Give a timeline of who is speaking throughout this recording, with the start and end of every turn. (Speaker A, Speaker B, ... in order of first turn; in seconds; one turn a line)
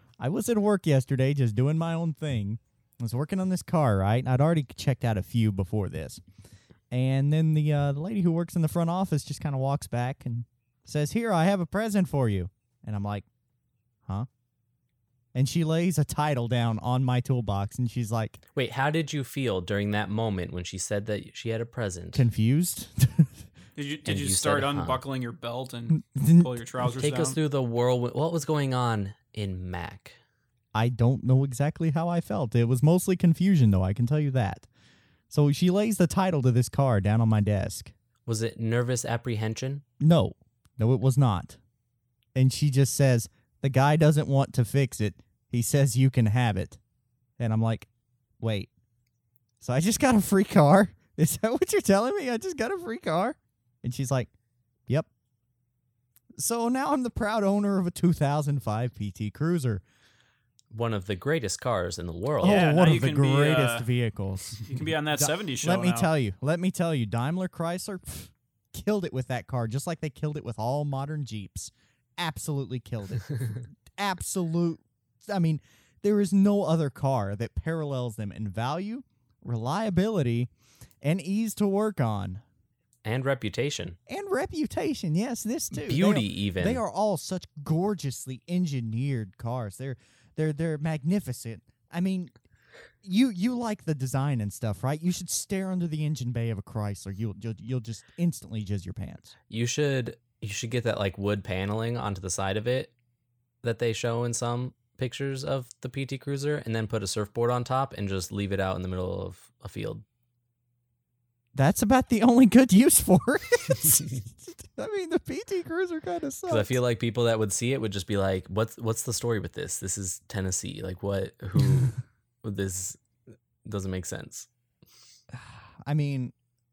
Speaker A: 0.2-6.2
Speaker A: 6.9-13.3
Speaker A: 15.3-18.4
Speaker B: 18.6-22.3
Speaker A: 22.1-23.4
Speaker C: 23.8-27.4
Speaker B: 24.1-25.1
Speaker A: 26.1-26.6
Speaker B: 27.0-30.2
Speaker A: 30.7-34.7
Speaker A: 35.3-37.9
Speaker B: 38.3-39.8
Speaker A: 40.0-41.6
Speaker A: 42.4-46.8
Speaker A: 47.4-47.9
Speaker A: 48.4-48.7
Speaker A: 49.6-54.3
Speaker A: 56.4-59.8
Speaker B: 60.7-62.6
Speaker A: 62.4-80.5
Speaker C: 62.4-63.9
Speaker C: 64.6-66.1
Speaker A: 81.0-82.4
Speaker B: 83.0-84.0
Speaker A: 84.1-92.3
Speaker B: 85.7-86.8
Speaker A: 93.0-99.3
Speaker B: 99.5-102.9
Speaker B: 103.6-110.0
Speaker A: 111.5-116.8
Speaker B: 116.5-123.0
Speaker B: 123.6-124.5
Speaker A: 125.3-126.3